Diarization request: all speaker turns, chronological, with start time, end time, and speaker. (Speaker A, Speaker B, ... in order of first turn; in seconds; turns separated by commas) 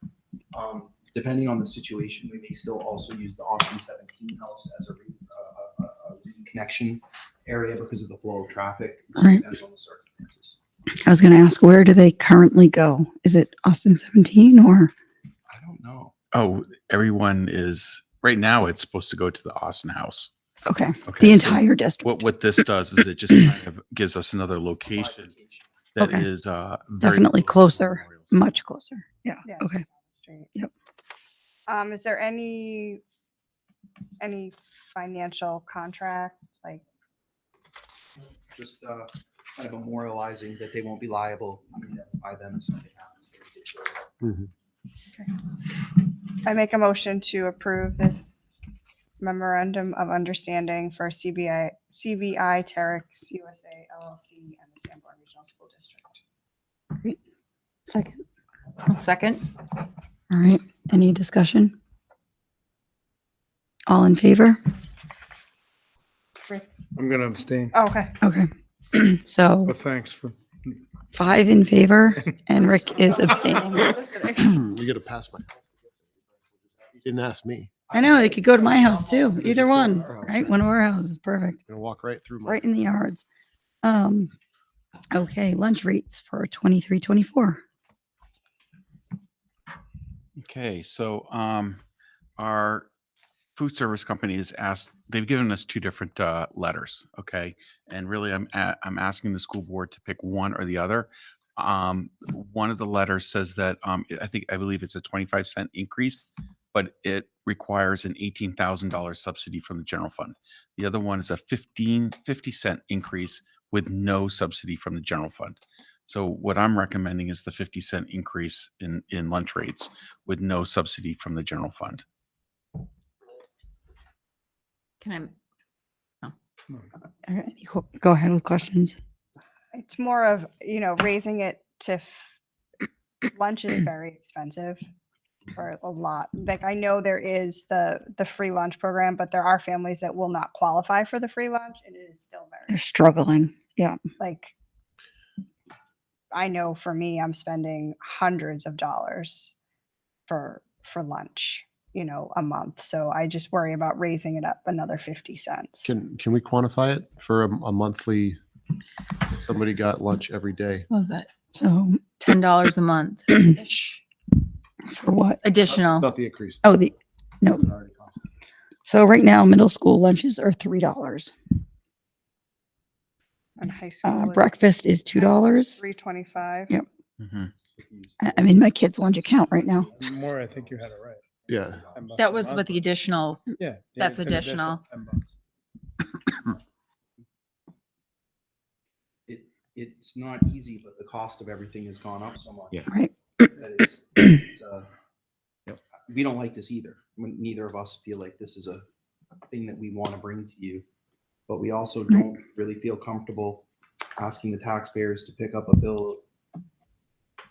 Speaker A: 0.5-10.6, Speaker B: 11.1-14.9, Speaker A: 15.5-16.1, Speaker C: 16.3-20.3, Speaker B: 20.7-22.2, Speaker C: 21.1-25.3, Speaker A: 24.9-25.7, Speaker C: 26.0-28.4, Speaker B: 26.0-26.3, Speaker B: 27.0-29.9, Speaker D: 29.4-30.5, Speaker D: 31.7-33.0, Speaker D: 34.2-36.8, Speaker A: 38.5-44.1, Speaker E: 44.2-44.5, Speaker D: 46.5-48.5, Speaker D: 49.2-56.2, Speaker B: 57.9-58.2, Speaker F: 58.8-59.5, Speaker B: 60.3-61.7, Speaker B: 63.9-64.6, Speaker G: 66.9-67.7, Speaker D: 67.7-68.2, Speaker B: 68.2-69.8, Speaker G: 69.7-70.8, Speaker B: 71.1-73.9, Speaker D: 72.8-74.5, Speaker E: 74.4-77.8, Speaker A: 77.9-80.0, Speaker B: 77.9-81.6, Speaker E: 79.3-80.6, Speaker E: 81.7-82.7, Speaker B: 82.5-83.2, Speaker B: 83.8-84.3, Speaker B: 85.1-87.6, Speaker C: 90.4-91.8, Speaker C: 92.4-92.9, Speaker C: 93.6-122.0, Speaker F: 125.0-125.3, Speaker B: 127.3-128.9, Speaker D: 129.7-132.2, Speaker D: 133.3-134.8, Speaker D: 135.5-142.8, Speaker B: 142.7-144.0, Speaker D: 144.2-144.5, Speaker D: 146.3-149.5, Speaker D: 150.3-155.9, Speaker E: 155.8-158.4, Speaker E: 159.3-160.9, Speaker F: 160.9-161.3, Speaker B: 161.6-162.0, Speaker F: 162.2-164.0, Speaker B: 164.9-165.4, Speaker F: 165.4-166.1, Speaker E: 166.0-166.8, Speaker B: 166.6-167.7, Speaker E: 167.6-168.2, Speaker B: 168.9-171.3, Speaker D: 173.6-176.7, Speaker B: 174.0-175.8, Speaker C: 177.2-177.5, Speaker A: 177.6-180.8, Speaker B: 178.2-179.9, Speaker G: 179.9-181.2, Speaker A: 181.4-182.3, Speaker E: 181.5-181.8, Speaker G: 181.9-182.8, Speaker F: 182.2-184.8, Speaker G: 183.5-185.3, Speaker A: 189.3-192.8, Speaker A: 193.4-194.9, Speaker A: 196.1-198.8, Speaker A: 199.5-200.8, Speaker A: 201.5-206.2